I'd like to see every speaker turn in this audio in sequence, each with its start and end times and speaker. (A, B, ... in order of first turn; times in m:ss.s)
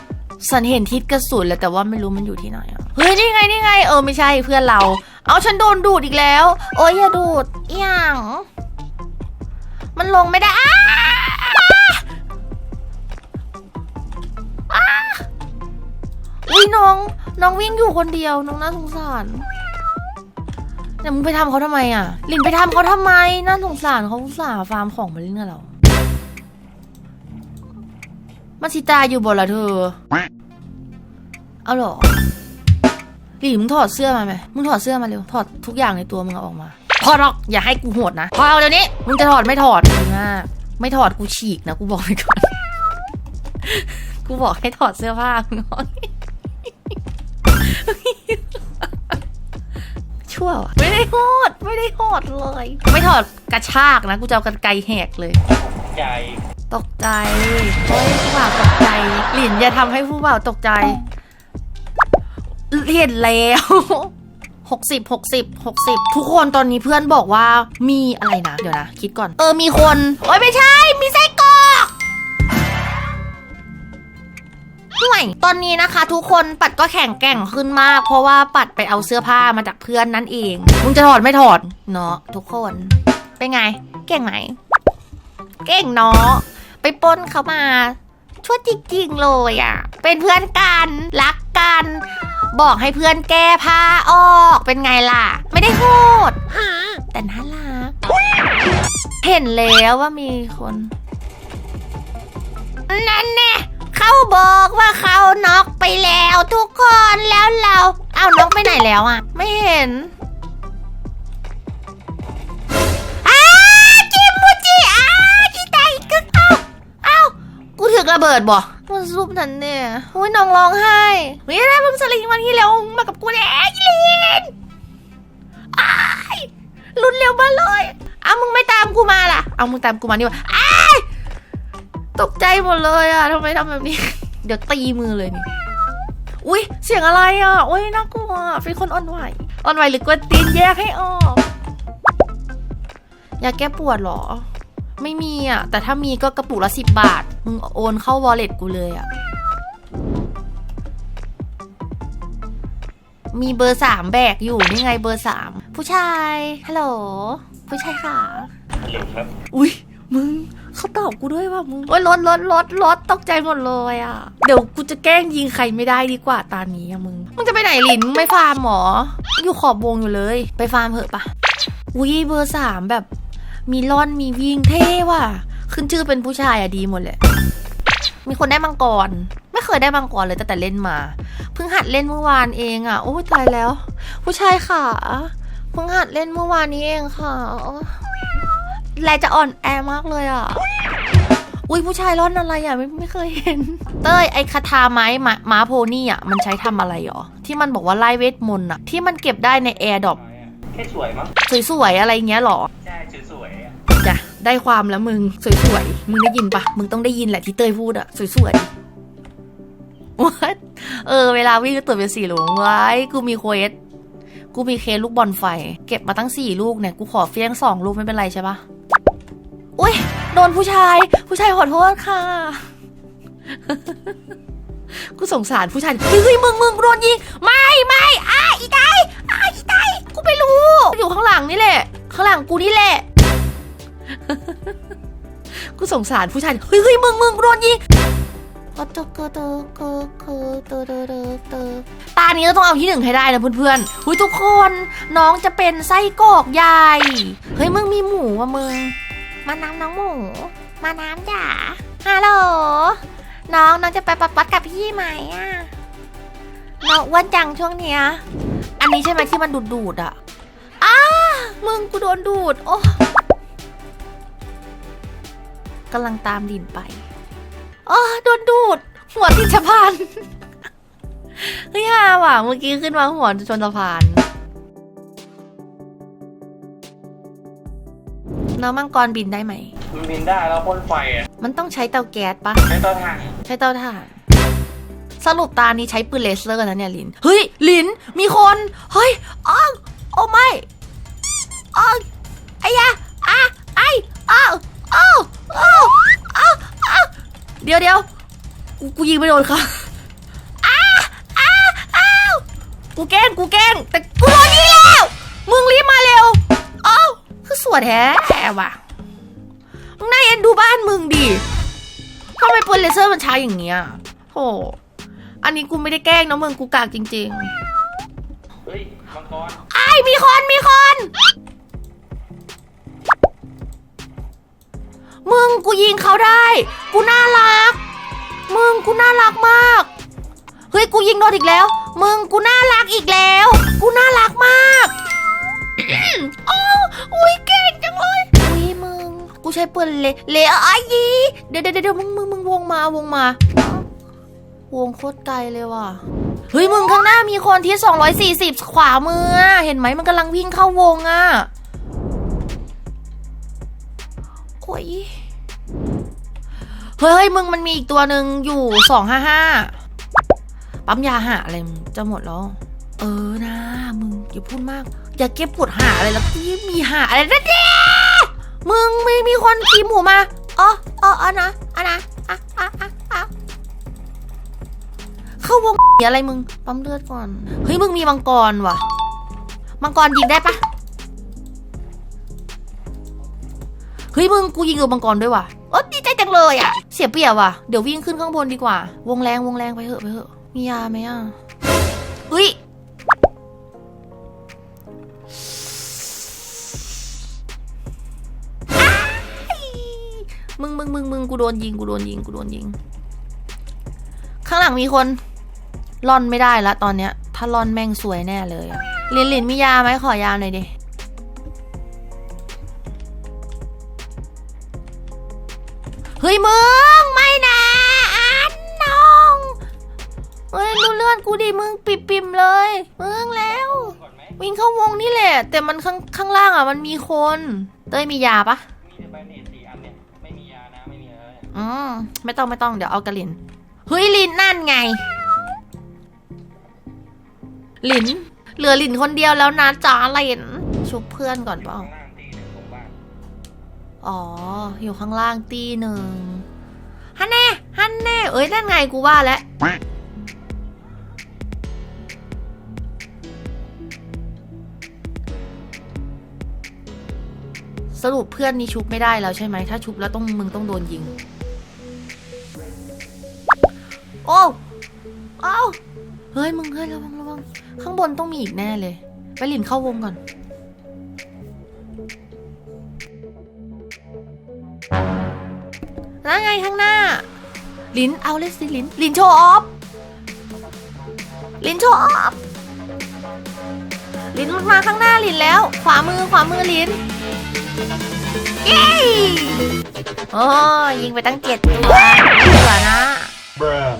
0:00.4-0:08.4 A
0:10.0-0:12.0 A
0:14.7-0:15.2 A
0:16.5-0:19.4 A
0:21.0-0:25.7 A
0:28.6-0:30.0 A
0:31.6-0:32.1 A
0:33.4-0:42.5 A
0:43.6-0:46.1 A
0:47.6-0:49.1 A
0:50.3-0:55.4 A
0:55.5-0:56.4 B
0:56.7-1:01.0 A
1:02.7-1:04.1 A
1:04.6-1:11.9 A
1:15.0-1:24.6 A
1:25.6-1:36.4 A
1:37.1-1:38.0 A
1:39.2-1:40.9 A
1:42.9-1:50.1 A
1:53.2-2:04.5 A
2:05.7-2:11.0 A
2:12.1-2:15.4 A
2:16.4-2:21.4 A
2:23.4-2:24.4 A
2:25.0-2:29.1 A
2:33.3-2:38.5 A
2:38.8-2:39.4 B
2:39.5-2:51.3 A
2:51.9-2:53.1 A
2:53.7-2:57.2 A
2:58.2-3:08.0 A
3:09.0-3:10.6 A
3:11.7-3:20.2 A
3:20.1-3:21.4 B
3:21.5-3:22.7 A
3:22.8-3:23.8 B
3:24.0-3:28.7 A
3:30.2-3:33.7 A
3:34.5-3:38.6 A
3:39.8-3:42.6 A
3:43.5-3:44.2 A
3:44.9-3:53.0 A
3:54.1-3:54.8 A
3:55.5-3:57.8 A
3:58.8-4:08.9 A
4:09.4-4:15.7 A
4:16.8-4:18.2 A
4:18.8-4:20.1 A
4:20.8-4:23.0 A
4:25.9-4:27.0 A
4:27.8-4:30.2 A
4:31.4-4:34.2 A
4:38.6-4:39.7 A
4:39.9-4:41.3 B
4:41.4-4:42.6 A
4:42.7-4:43.3 B
4:43.4-4:44.1 A
4:45.2-4:50.7 A
4:51.7-4:52.0 A
4:52.6-4:58.0 A
4:58.8-4:59.9 A
5:00.6-5:02.4 A
5:02.9-5:08.8 A
5:10.0-5:11.4 A
5:12.4-5:14.8 A
5:15.4-5:17.5 A
5:18.6-5:19.6 B
5:19.7-5:21.1 A
5:25.2-5:27.8 A
5:28.5-5:29.9 A
5:30.7-5:34.9 A
5:35.8-5:43.8 A
5:44.7-5:51.5 A
5:54.6-5:55.1 A
5:57.0-5:59.7 A
6:00.8-6:13.3 A
6:15.4-6:18.8 A
6:19.8-6:20.6 A
6:24.1-6:31.3 A
6:32.3-6:32.6 A
6:38.8-6:42.8 A
6:44.4-6:45.2 A
6:46.0-6:50.7 A
6:56.2-6:59.6 A
7:00.5-7:08.6 A
7:03.8-7:04.3 B
7:08.8-7:11.5 B
7:11.5-7:15.0 A
7:17.8-7:21.9 A
7:21.6-7:23.0 B
7:24.0-7:26.4 A
7:27.2-7:29.4 A
7:37.9-7:41.2 A
7:44.2-7:44.6 A
7:45.4-7:45.8 A
7:46.3-7:50.2 A
7:56.2-7:57.2 A
7:57.9-7:59.7 A
8:01.6-8:02.4 A
8:04.3-8:07.0 A
8:08.6-8:09.7 A
8:10.3-8:13.3 A